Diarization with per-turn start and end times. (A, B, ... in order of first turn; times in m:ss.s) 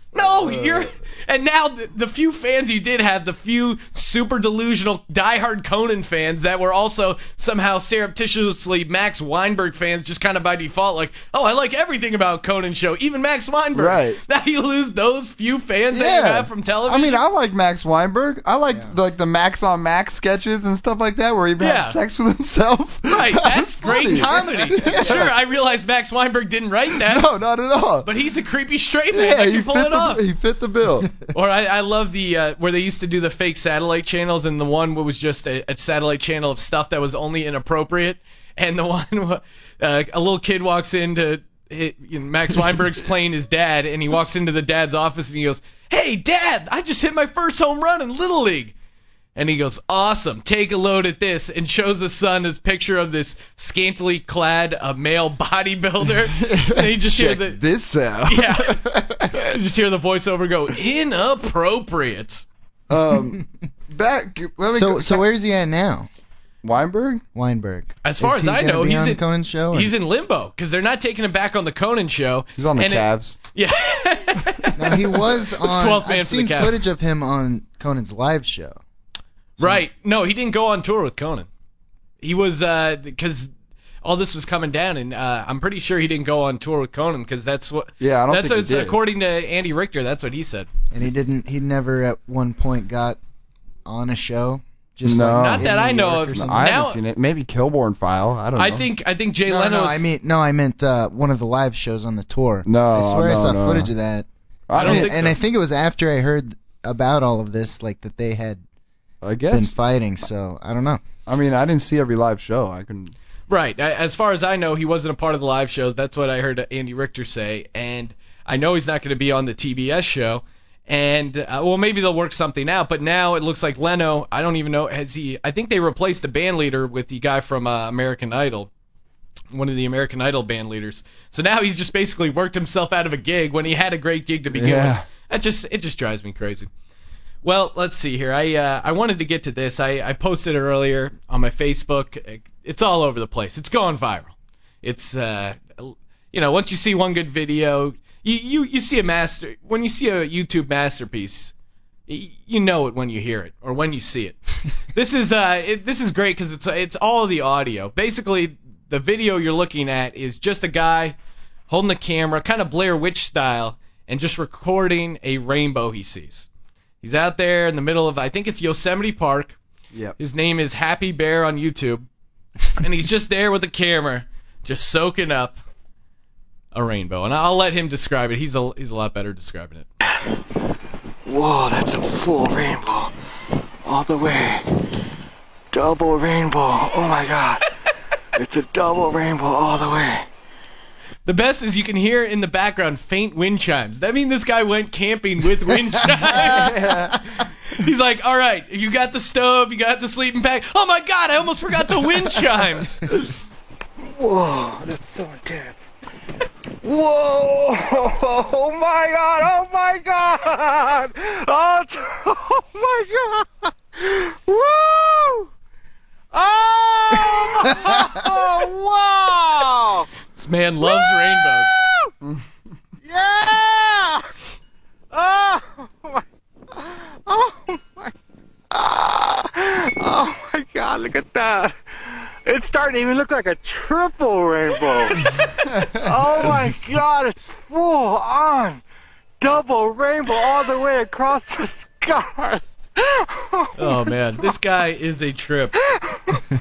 0:00.1-0:17.2 A
0:00.2-0:00.9 B
0:13.8-0:14.2 B
0:15.9-0:25.3 B
0:21.6-0:22.0 A
0:23.1-0:27.3 A
0:24.1-0:25.3 C
0:27.0-0:28.1 B
0:28.0-0:30.2 A
0:29.1-0:31.2 B
0:31.3-0:48.7 A
0:49.4-0:57.6 A
0:56.2-0:59.5 B
0:58.3-0:58.8 A
0:59.4-1:02.4 A
1:02.9-1:05.2 B
1:04.8-1:06.1 C
1:06.6-1:07.2 B
1:07.4-1:09.9 C
1:08.0-1:16.8 A
1:12.6-1:13.4 B
1:14.8-1:18.8 C
1:19.6-1:21.5 A
1:22.2-1:23.5 A
1:24.0-1:30.7 A
1:28.0-1:29.0 B
1:30.9-1:33.2 C
1:33.9-1:36.7 C
1:35.0-1:38.9 B
1:35.4-1:37.0 A
1:38.6-1:40.1 A
1:39.5-1:48.6 C
1:42.7-1:43.9 B
1:44.7-1:45.4 B
1:44.8-1:45.4 A
1:49.2-1:49.7 B
1:49.5-1:51.0 C
1:51.3-1:53.1 B
1:53.5-2:08.7 A
2:09.5-2:16.7 A
2:14.5-2:15.0 B
2:17.4-2:31.5 A
2:32.1-2:34.4 A
2:34.9-2:41.2 A
2:41.7-2:46.5 A
2:47.0-2:49.6 A
2:50.2-2:52.1 A
2:52.8-2:55.6 A
2:56.7-2:59.9 A
3:01.3-3:03.1 D
3:03.8-3:04.6 D
3:05.7-3:07.7 D
3:08.4-3:10.3 D
3:11.3-3:23.0 A
3:16.1-3:17.2 B
3:24.1-3:25.9 D
3:26.8-3:35.5 D
3:36.3-3:40.1 D
3:37.7-3:38.1 C
3:40.4-3:41.8 A
3:40.8-3:42.1 D
3:43.0-3:44.3 D
3:45.1-3:46.2 D
3:46.8-3:48.1 D
3:48.7-3:51.8 D
3:52.5-3:58.8 D
3:55.8-3:56.1 B
3:59.4-4:04.1 D
4:03.8-4:05.8 A
4:06.1-4:06.4 D